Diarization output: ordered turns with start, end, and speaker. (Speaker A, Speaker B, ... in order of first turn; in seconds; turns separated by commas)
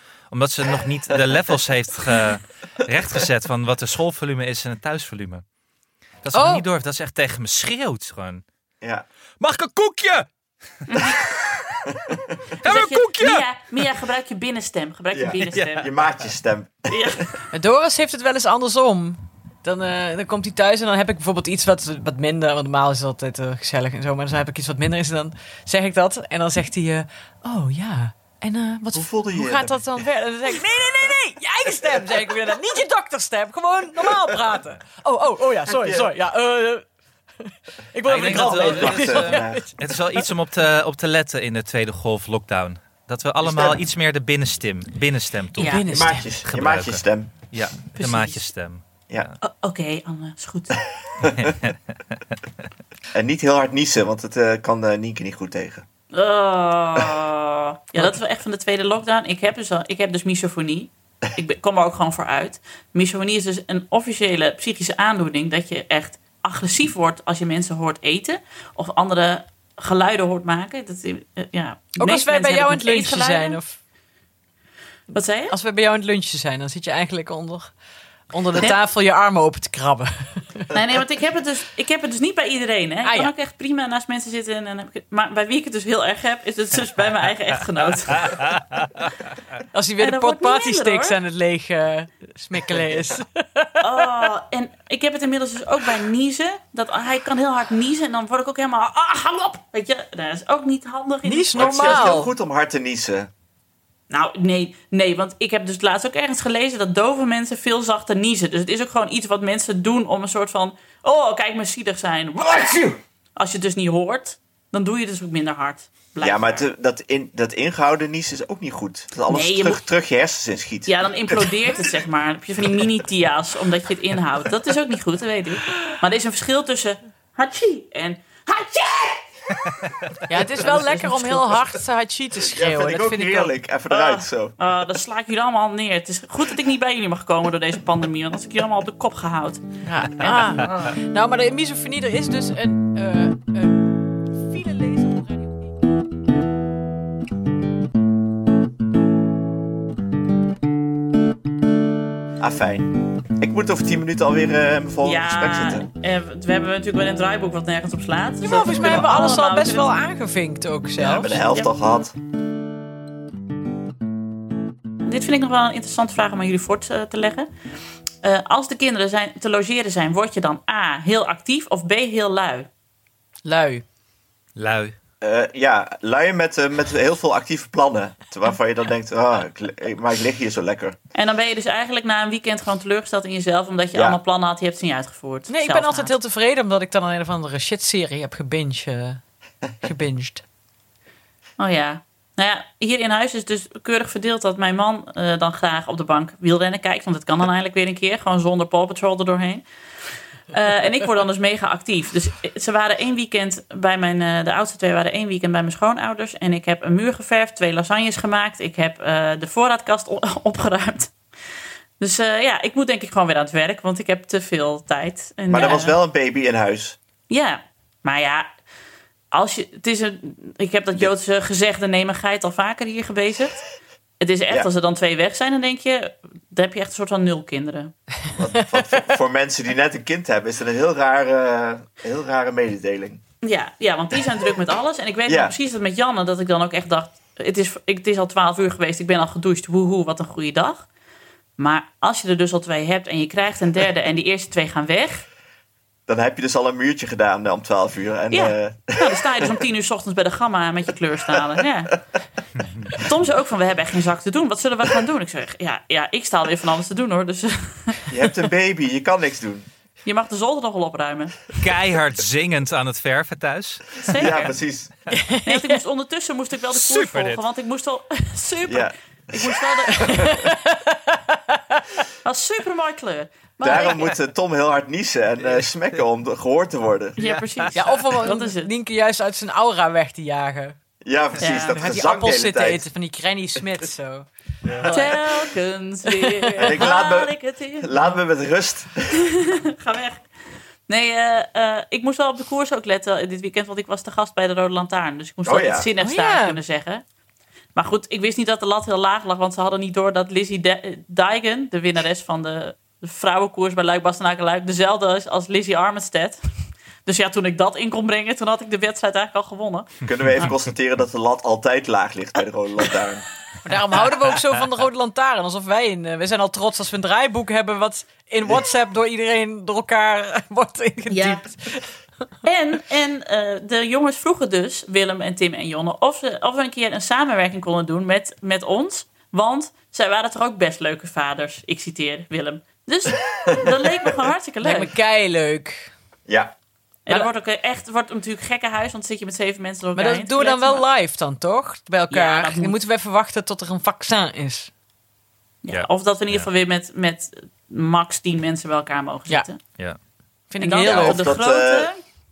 Speaker A: 0.3-5.4, Speaker A: 6.2-8.4, Speaker B: 6.3-6.7, Speaker A: 9.4-10.3, Speaker A: 10.9-11.9, Speaker C: 10.9-11.2, Speaker D: 11.9-12.4, Speaker A: 12.6-13.4, Speaker C: 12.6-15.9, Speaker D: 15.1-17.2, Speaker A: 15.4-15.9, Speaker C: 16.9-17.4, Speaker B: 17.5-36.8, Speaker D: 28.9-29.8, Speaker D: 35.7-36.1, Speaker B: 37.4-40.2, Speaker A: 38.0-45.9, Speaker D: 38.1-39.7, Speaker D: 43.4-43.8, Speaker B: 45.6-46.3, Speaker D: 45.9-47.3, Speaker A: 46.4-49.4, Speaker C: 48.0-48.4, Speaker C: 49.4-50.9, Speaker D: 51.2-51.5, Speaker A: 51.4-52.4, Speaker D: 53.1-55.9, Speaker C: 56.1-73.6, Speaker B: 72.0-73.8, Speaker C: 75.1-75.5, Speaker B: 75.5-77.7, Speaker B: 78.3-80.7, Speaker C: 80.7-88.6, Speaker B: 83.0-83.3, Speaker A: 88.2-89.1, Speaker B: 89.7-94.2, Speaker C: 90.0-91.2, Speaker C: 93.8-102.2, Speaker B: 101.2-102.3, Speaker D: 101.6-103.3, Speaker C: 104.1-116.7, Speaker D: 116.2-121.8, Speaker C: 119.3-119.8, Speaker C: 120.9-129.2, Speaker A: 129.7-129.9, Speaker B: 130.3-133.5, Speaker C: 130.6-131.6, Speaker D: 132.5-134.6, Speaker C: 133.9-140.4, Speaker B: 139.8-145.8, Speaker D: 152.4-155.9, Speaker C: 155.0-159.9, Speaker B: 158.4-161.4, Speaker D: 161.0-162.2, Speaker C: 165.0-167.5, Speaker C: 168.2-172.7, Speaker B: 173.4-173.8, Speaker A: 174.6-174.9, Speaker D: 175.2-181.0, Speaker C: 181.1-186.1, Speaker D: 183.9-184.2, Speaker B: 185.5-189.2, Speaker B: 189.8-190.4, Speaker C: 191.6-199.6, Speaker C: 200.5-211.1, Speaker C: 212.0-216.0, Speaker D: 215.5-217.0, Speaker C: 217.3-218.5, Speaker C: 219.3-223.7, Speaker C: 224.2-227.9, Speaker D: 228.3-233.2, Speaker B: 228.5-228.9, Speaker C: 233.4-240.9, Speaker D: 235.3-235.6, Speaker C: 241.6-245.2, Speaker D: 246.1-249.6, Speaker C: 248.3-252.0, Speaker A: 252.6-253.0, Speaker C: 252.9-258.1, Speaker D: 258.1-259.7, Speaker C: 260.1-261.5, Speaker A: 261.6-264.3, Speaker C: 264.0-264.5, Speaker D: 264.1-264.9, Speaker B: 265.1-265.8, Speaker C: 265.4-270.4, Speaker A: 266.7-267.4, Speaker D: 268.7-270.5, Speaker B: 269.9-272.0, Speaker C: 272.2-274.2, Speaker D: 273.6-277.2, Speaker C: 277.2-278.7, Speaker A: 277.2-277.8, Speaker B: 277.7-280.8, Speaker D: 281.0-282.9, Speaker C: 281.4-281.8, Speaker B: 281.7-285.5, Speaker A: 284.6-284.9, Speaker C: 284.9-288.0, Speaker B: 286.1-286.9, Speaker D: 286.6-289.3, Speaker C: 289.1-290.2, Speaker C: 290.9-297.0, Speaker D: 295.4-295.9, Speaker B: 296.0-296.6, Speaker C: 297.8-306.4, Speaker C: 307.1-310.5, Speaker D: 310.1-313.3, Speaker B: 313.6-321.9, Speaker C: 321.1-321.4, Speaker C: 322.4-334.9, Speaker D: 333.4-333.9, Speaker B: 334.6-335.9, Speaker D: 336.3-336.5, Speaker C: 337.1-340.8, Speaker B: 340.0-344.7, Speaker C: 342.1-342.8, Speaker C: 345.6-349.6, Speaker A: 345.7-346.5, Speaker B: 350.5-351.3, Speaker C: 350.6-352.0, Speaker D: 350.8-351.9